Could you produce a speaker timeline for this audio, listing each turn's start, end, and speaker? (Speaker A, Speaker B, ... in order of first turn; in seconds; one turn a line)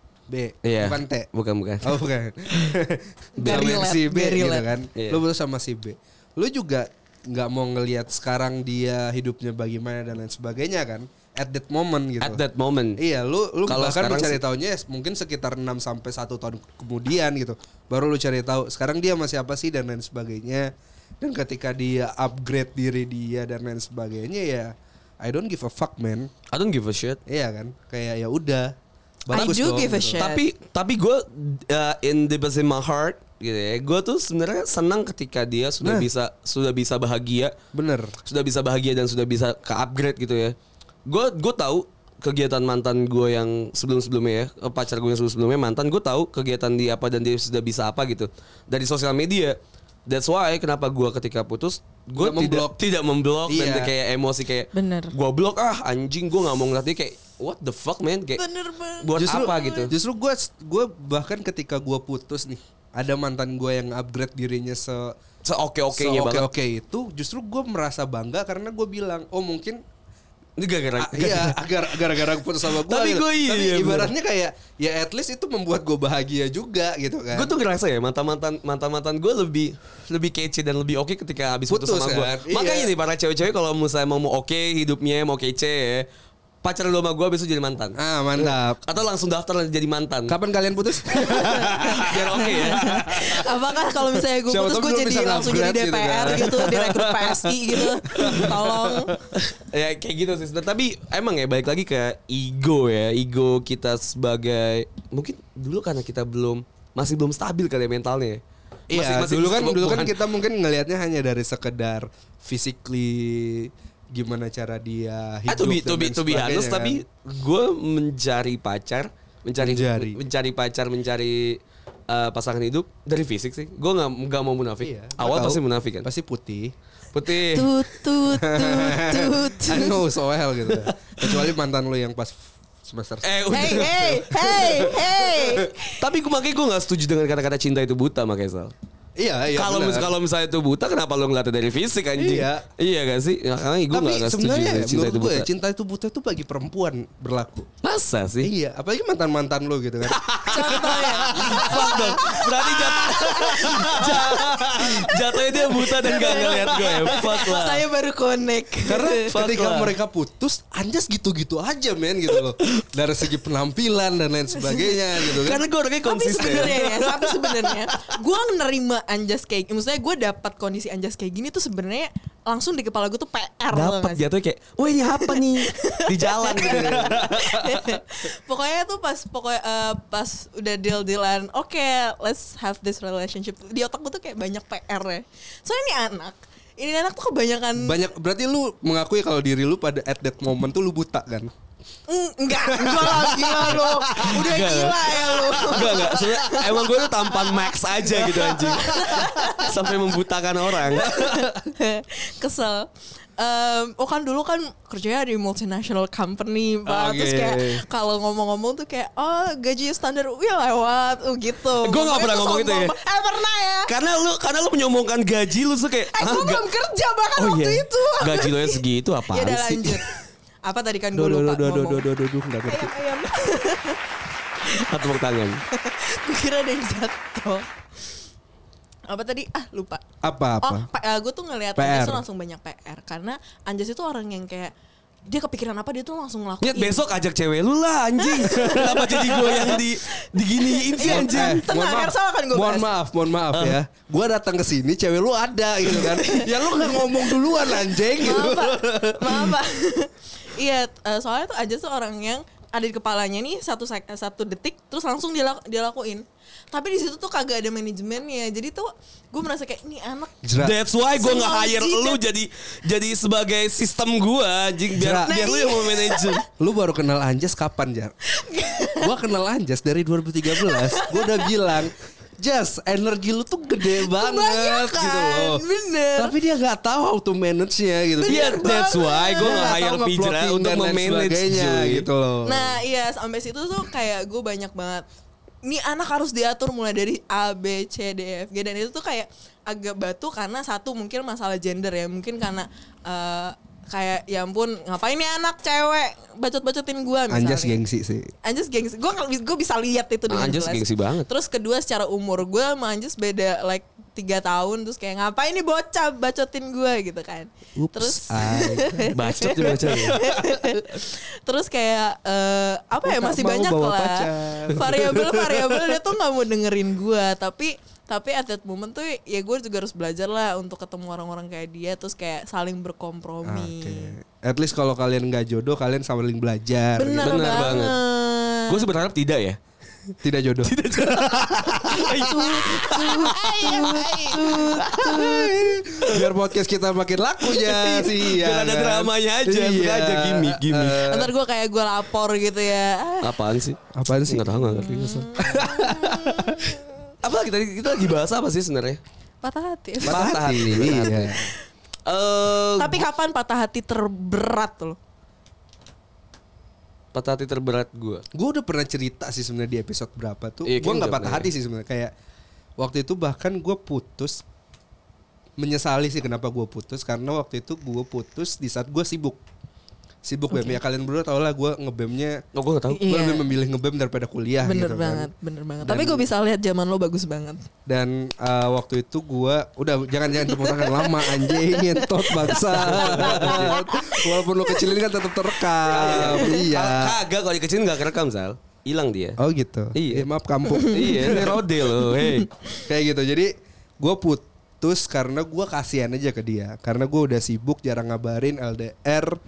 Speaker A: 0.3-1.3
Speaker B: 0.6-2.0
Speaker A: 1.8-12.4
Speaker C: 3.4-4.7
Speaker B: 3.4-3.8
Speaker B: 4.9-5.2
Speaker B: 12.2-13.0
Speaker A: 13.0-20.7
Speaker B: 13.7-14.4
Speaker A: 21.2-26.3
Speaker B: 26.5-27.2
Speaker A: 27.3-28.7
Speaker A: 29.3-30.2
Speaker C: 29.3-30.4
Speaker B: 30.2-37.5
Speaker A: 35.8-36.1
Speaker A: 37.7-38.1
Speaker B: 38.2-40.5
Speaker B: 41.0-58.4
Speaker A: 52.2-52.8
Speaker A: 53.5-53.9
Speaker C: 54.7-55.1
Speaker C: 58.4-59.9
Speaker B: 59.0-59.9
Speaker A: 59.2-65.1
Speaker B: 65.4-66.5
Speaker A: 65.9-69.8
Speaker B: 70.6-71.6
Speaker A: 71.0-77.5
Speaker B: 72.1-74.1
Speaker B: 77.3-86.0
Speaker A: 81.7-82.9
Speaker B: 86.6-90.3
Speaker A: 88.0-88.8
Speaker A: 90.3-93.3
Speaker B: 91.2-93.4
Speaker C: 91.2-99.1
Speaker A: 94.5-99.1
Speaker B: 98.2-98.4
Speaker B: 99.3-110.1
Speaker A: 108.9-117.0
Speaker B: 115.5-126.1
Speaker A: 119.6-120.2
Speaker A: 124.8-126.7
Speaker B: 127.1-127.7
Speaker C: 127.4-130.0
Speaker A: 128.4-135.0
Speaker B: 130.7-131.4
Speaker B: 133.2-135.0
Speaker C: 133.5-136.0
Speaker B: 136.0-138.7
Speaker A: 139.2-140.1
Speaker B: 139.5-145.5
Speaker A: 142.2-142.7
Speaker A: 143.9-147.7
Speaker B: 147.8-148.5
Speaker A: 148.4-155.1
Speaker B: 150.1-157.8
Speaker C: 150.4-159.2
Speaker A: 156.1-157.2
Speaker A: 158.9-165.6
Speaker B: 159.3-159.9
Speaker B: 165.2-168.0
Speaker C: 166.0-174.2
Speaker B: 173.7-177.7
Speaker C: 175.2-188.0
Speaker A: 176.6-177.3
Speaker A: 187.8-191.5
Speaker C: 192.1-199.9
Speaker A: 192.7-194.7
Speaker B: 194.2-201.1
Speaker A: 195.8-196.1
Speaker A: 198.2-199.5
Speaker C: 200.8-213.9
Speaker A: 201.0-201.6
Speaker A: 206.9-207.8
Speaker B: 211.8-212.9
Speaker B: 213.9-216.6
Speaker C: 216.1-220.1
Speaker B: 217.4-220.0
Speaker C: 220.6-222.1
Speaker A: 221.1-222.9
Speaker C: 222.6-224.0
Speaker C: 224.7-225.1
Speaker B: 224.8-225.6
Speaker C: 225.7-227.7
Speaker C: 229.1-230.0
Speaker A: 230.2-230.9
Speaker C: 230.6-234.7
Speaker A: 231.8-232.2
Speaker C: 235.3-237.0
Speaker B: 236.6-241.6
Speaker C: 238.2-242.9
Speaker A: 241.0-249.5
Speaker B: 243.5-243.8
Speaker C: 246.0-260.4
Speaker A: 260.4-260.7
Speaker B: 260.6-266.4
Speaker C: 261.1-262.2
Speaker A: 265.0-265.4
Speaker C: 265.2-266.4
Speaker A: 266.6-268.1
Speaker C: 268.3-269.1
Speaker A: 269.0-275.6
Speaker C: 270.5-271.5
Speaker C: 273.8-276.3
Speaker A: 276.2-278.7
Speaker C: 278.2-279.7
Speaker B: 278.3-282.1
Speaker A: 279.4-282.8
Speaker C: 282.4-285.1
Speaker C: 285.6-297.8
Speaker A: 297.3-298.3
Speaker C: 298.4-324.1
Speaker B: 300.3-301.3
Speaker A: 307.8-310.7
Speaker B: 309.1-310.2
Speaker A: 313.0-316.0
Speaker A: 323.4-327.7
Speaker C: 326.9-328.9
Speaker B: 327.2-328.0
Speaker B: 328.7-329.6
Speaker A: 330.2-332.1
Speaker B: 330.6-335.5
Speaker C: 331.9-335.5
Speaker A: 334.9-341.3
Speaker B: 336.0-336.3
Speaker B: 337.4-341.0
Speaker C: 341.1-343.5
Speaker B: 343.2-345.3
Speaker A: 343.9-346.8
Speaker C: 344.8-346.9
Speaker B: 347.2-349.0
Speaker C: 349.4-351.6
Speaker A: 350.0-351.4
Speaker B: 350.0-351.3
Speaker B: 352.1-353.1
Speaker C: 352.8-355.0
Speaker B: 357.1-358.2
Speaker A: 358.3-362.1
Speaker B: 360.6-361.5
Speaker A: 362.8-364.4
Speaker A: 365.6-369.4
Speaker A: 370.2-372.4
Speaker C: 370.5-370.8
Speaker B: 372.5-373.0
Speaker C: 372.9-373.5
Speaker A: 373.1-375.3
Speaker C: 374.6-377.6
Speaker A: 375.8-376.2
Speaker A: 377.9-387.2
Speaker C: 380.5-384.9
Speaker B: 382.8-383.7
Speaker C: 385.7-386.6
Speaker B: 385.9-389.4
Speaker A: 389.4-391.6
Speaker B: 389.9-390.3
Speaker C: 390.7-392.8
Speaker B: 390.9-392.4
Speaker A: 392.9-399.4